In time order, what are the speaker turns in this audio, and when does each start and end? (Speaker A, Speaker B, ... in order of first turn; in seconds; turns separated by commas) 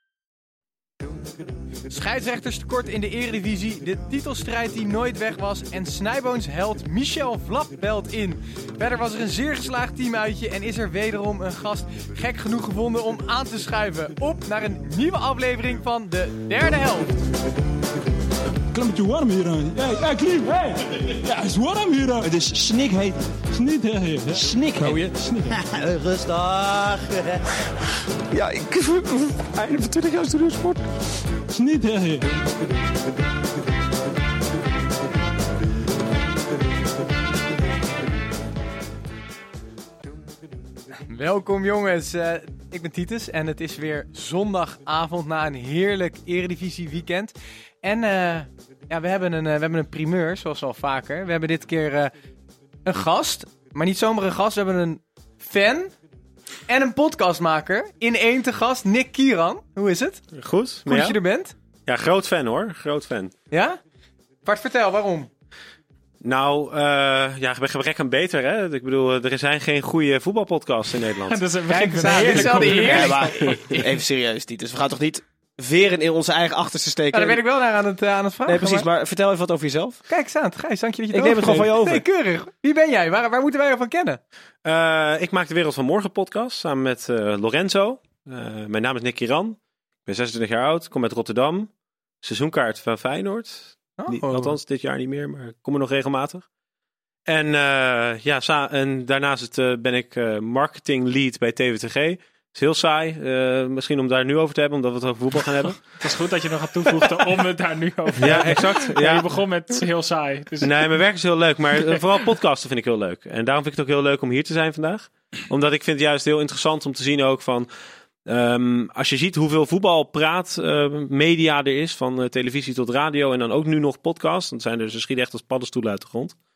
Speaker A: 1.9-17.2, Speaker B: 18.7-25.6, Speaker B: 31.5-32.2, Speaker A: 41.1-52.1, Speaker A: 52.9-56.0, Speaker A: 56.7-60.2, Speaker C: 60.3-61.2, Speaker A: 60.9-61.5, Speaker C: 61.9-63.3, Speaker A: 63.5-63.8, Speaker A: 64.4-65.3, Speaker C: 66.2-71.5, Speaker D: 71.3-73.3, Speaker A: 71.7-74.0, Speaker C: 72.1-72.7, Speaker E: 72.7-77.4, Speaker A: 77.1-78.9, Speaker E: 78.5-80.0, Speaker A: 80.1-84.2, Speaker E: 81.1-82.0, Speaker C: 84.7-91.7, Speaker C: 92.2-96.5, Speaker A: 94.0-94.5, Speaker C: 97.3-106.0, Speaker D: 105.9-110.9, Speaker C: 108.2-109.4, Speaker C: 110.6-117.7, Speaker C: 118.3-126.4